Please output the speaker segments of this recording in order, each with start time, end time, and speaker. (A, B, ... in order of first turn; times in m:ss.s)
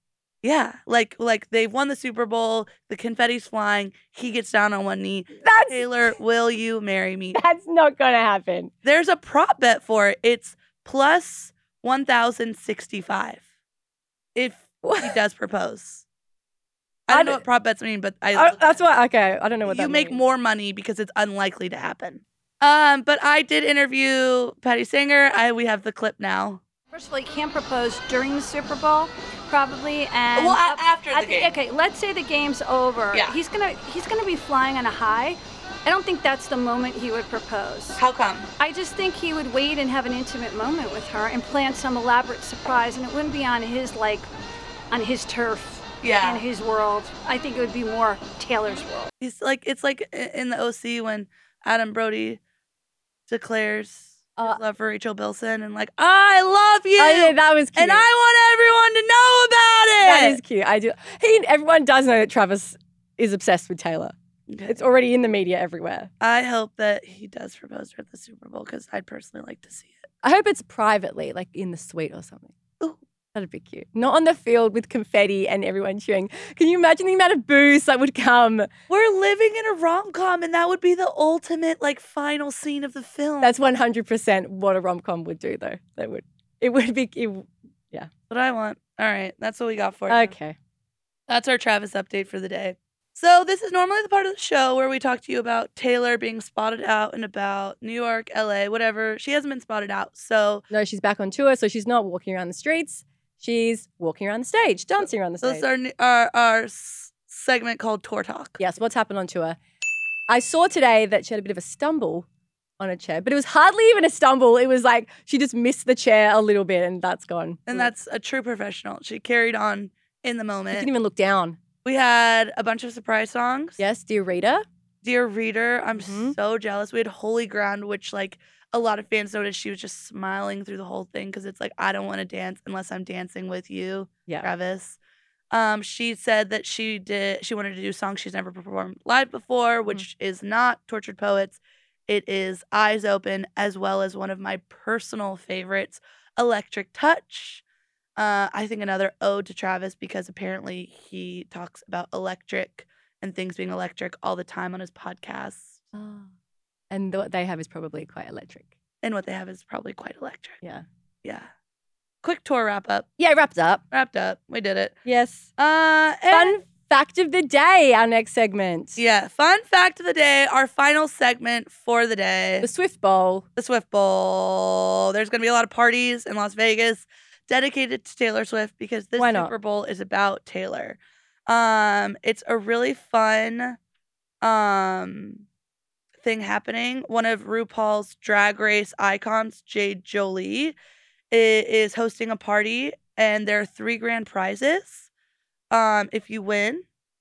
0:00.4-0:07.4 A
0:05.4-0:06.1 B
0:07.3-0:08.7 B
0:08.8-0:13.4 A
0:14.4-0:16.0 A
0:14.8-0:15.2 B
0:17.1-0:18.7 A
0:17.1-0:17.4 B
0:18.3-0:20.2 B
0:19.6-0:26.6 A
0:26.9-0:38.0 C
0:30.3-0:31.6 A
0:38.0-0:38.5 A
0:38.6-0:44.3 C
0:44.9-0:49.1 C
0:46.0-0:46.5 A
0:49.2-0:52.4 A
0:53.3-1:00.4 A
0:57.0-0:58.1 B
1:00.0-1:04.1 B
1:04.5-1:04.8 A
1:04.7-1:06.1 B
1:06.2-1:10.1 A
1:10.2-1:12.5 B
1:13.3-1:18.7 B
1:18.9-1:23.6 A
1:23.4-1:28.1 B
1:28.3-1:30.3 A
1:30.1-1:30.6 B
1:31.3-1:40.6 A
1:40.7-1:45.6 B
1:45.0-1:48.6 A
1:48.6-1:49.6 B
1:50.3-1:52.3 B
1:52.8-1:57.9 B
1:57.7-2:00.9 A
2:00.7-2:01.6 B
2:01.8-2:03.8 A
2:03.8-2:04.6 B
2:05.0-2:15.0 A
2:06.0-2:06.4 B
2:15.5-2:27.6 A
2:28.2-2:35.8 A
2:35.9-2:36.3 B
2:36.9-2:38.7 B
2:39.0-2:40.6 A
2:42.2-2:43.1 A
2:43.2-2:43.8 B
2:43.9-2:45.0 A
2:45.1-2:45.5 B
2:45.6-2:46.6 A
2:46.3-2:49.0 B
2:49.0-2:52.7 A
2:52.6-2:53.4 B
2:53.6-3:03.8 A
2:59.2-2:59.5 B
3:04.4-3:05.4 A
3:06.2-3:10.8 A
3:11.3-3:15.1 A
3:15.7-3:16.8 A